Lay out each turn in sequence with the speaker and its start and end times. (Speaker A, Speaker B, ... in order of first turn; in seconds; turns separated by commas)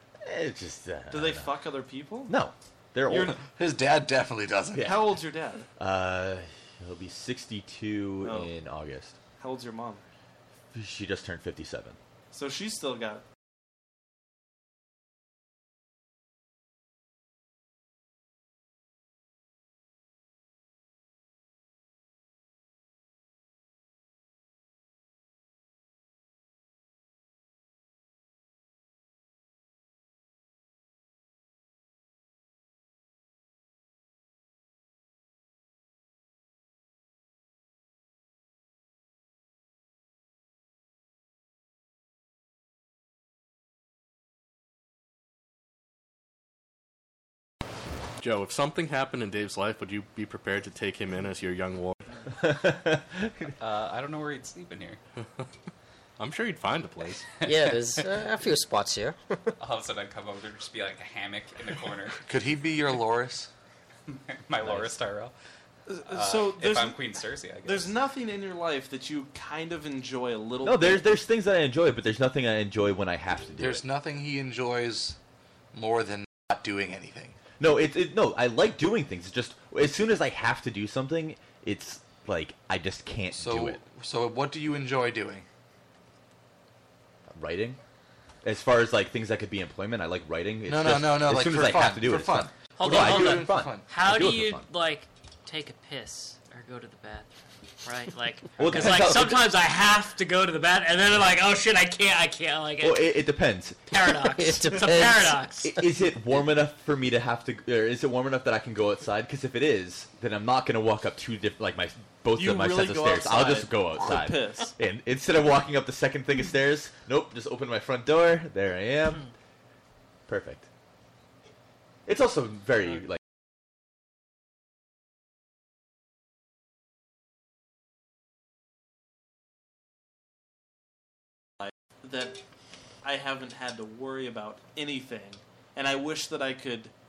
Speaker A: 0.2-1.5, Speaker B: 1.1-2.3, Speaker A: 2.2-3.4, Speaker B: 3.1-3.4, Speaker C: 3.5-5.0, Speaker B: 4.8-5.7, Speaker A: 5.8-9.2, Speaker B: 8.2-8.5, Speaker B: 9.4-10.0, Speaker A: 10.7-12.0, Speaker B: 12.3-13.2, Speaker D: 48.2-52.0, Speaker A: 52.4-53.5, Speaker E: 53.6-55.0, Speaker D: 56.2-57.3, Speaker F: 57.4-59.4, Speaker E: 59.6-62.2, Speaker C: 62.2-63.5, Speaker E: 64.1-65.3, Speaker A: 64.6-64.9, Speaker B: 65.9-71.0, Speaker E: 66.1-68.0, Speaker A: 70.6-73.8, Speaker C: 73.6-75.2, Speaker C: 75.7-77.4, Speaker A: 77.6-83.8, Speaker C: 83.3-85.4, Speaker A: 87.3-87.8, Speaker A: 88.4-94.7, Speaker C: 90.7-93.8, Speaker G: 92.7-97.3, Speaker G: 97.8-103.1, Speaker A: 98.6-99.5, Speaker A: 102.8-103.8, Speaker G: 103.9-105.8, Speaker F: 104.2-105.8, Speaker A: 105.7-119.3, Speaker B: 112.3-114.7, Speaker A: 120.3-120.7, Speaker A: 122.0-123.2, Speaker B: 131.6-132.4, Speaker B: 133.0-136.9